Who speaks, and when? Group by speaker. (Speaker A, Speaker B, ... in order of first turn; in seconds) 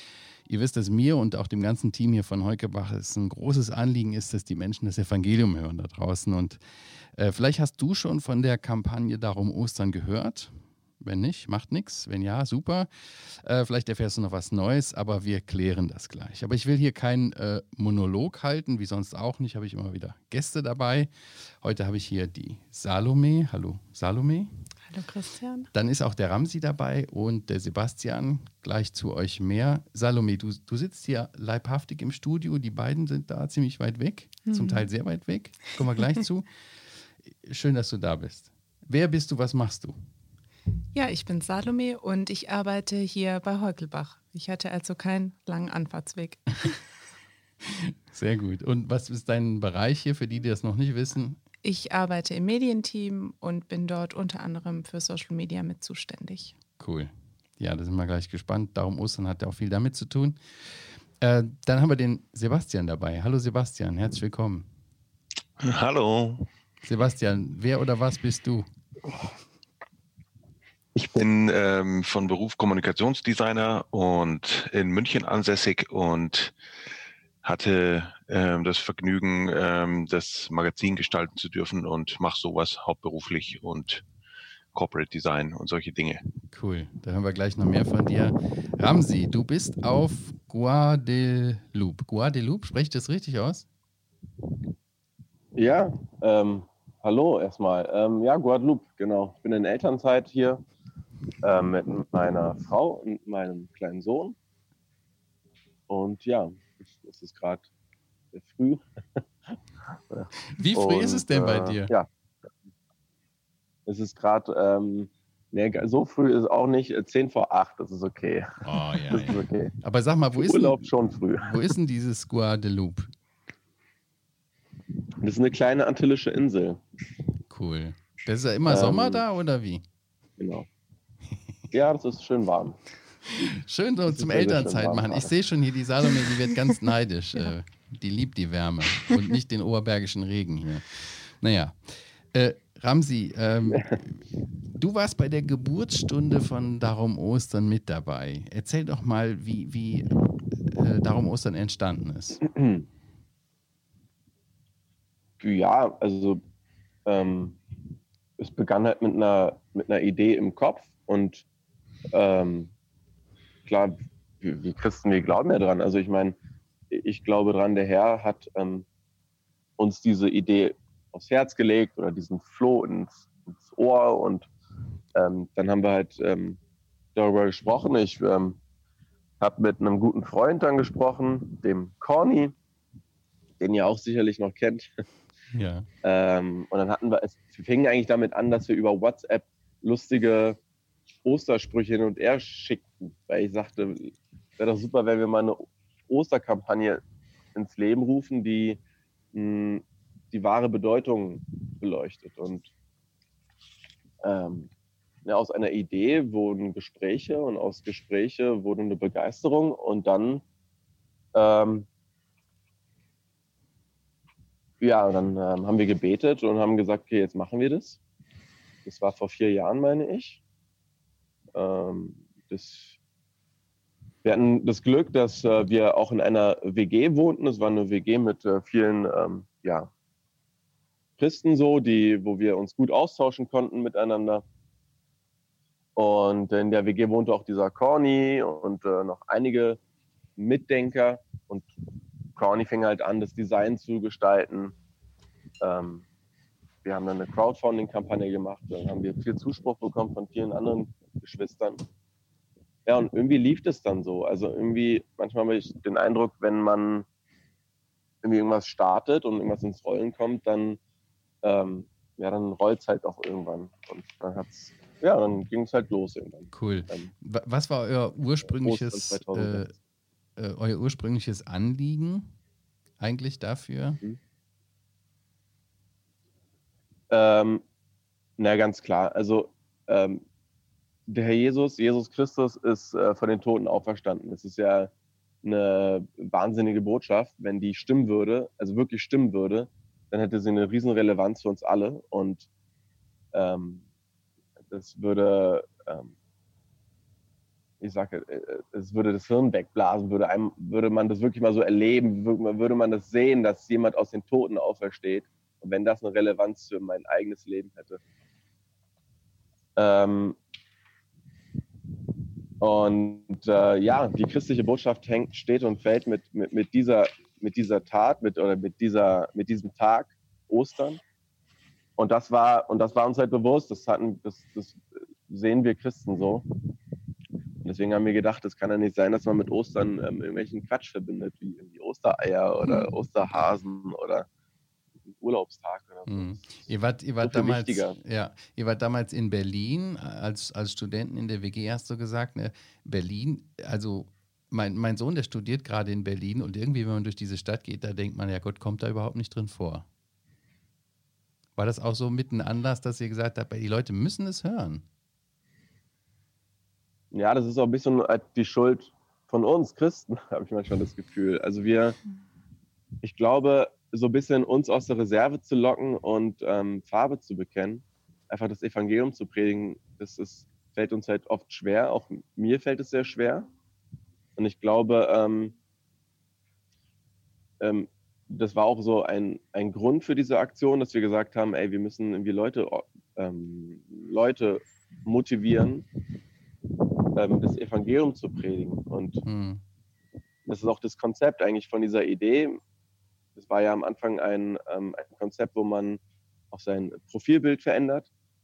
Speaker A: 0.5-24.5, 25.7-36.5, 37.3-40.0, 47.6-51.4, 56.8-64.7, 66.8-68.6, 86.5-93.7, 110.5-111.9, 118.6-123.1, 127.5-129.8, 133.3-152.4, 185.5-185.9, 266.5-269.7, 270.4-272.3, 273.0-274.0, 336.1-349.9, 351.6-354.8, 389.2-389.6
Speaker B: 24.9-25.7, 34.5-34.9, 40.9-46.8, 51.6-56.5
Speaker C: 65.6-66.5, 71.1-76.5, 77.4-84.0, 84.7-86.2
Speaker D: 71.0-71.2, 95.5-100.6, 101.4-104.3, 105.9-107.7, 108.3-109.6, 110.1-112.1, 113.8-119.7, 120.4-121.6, 125.2-126.8, 128.7-129.2, 130.4-130.7, 131.7-132.8, 134.1-135.3, 143.7-144.0, 152.4-152.8, 155.4-156.4, 157.1-157.6, 158.4-161.4, 162.1-162.7, 163.6-166.4, 166.9-168.9, 169.8-174.5, 175.1-176.6, 177.2-178.6, 179.4-182.6, 183.6-185.0, 186.0-190.6, 191.2-197.0, 197.5-198.8, 199.3-202.7, 204.2-204.7, 205.2-210.4, 211.3-211.9, 214.8-218.0, 218.8-220.4, 221.5-222.9, 224.2-229.9, 231.2-234.4, 235.9-239.8, 240.4-241.7, 242.3-244.7, 245.6-246.1, 246.8-251.8, 252.8-257.1, 258.2-260.8, 261.4-267.1, 268.6-269.6, 277.1-277.6, 278.4-280.2, 281.1-284.9, 285.4-292.5, 293.3-293.8, 294.7-296.1, 297.8-308.0, 309.8-310.4, 312.6-321.0, 322.0-326.4, 327.6-334.3, 335.1-336.7, 337.2-338.0, 357.1-362.0, 363.0-373.5, 374.4-375.6, 377.6-385.9, 387.1-389.2, 390.4-392.6, 393.4-398.1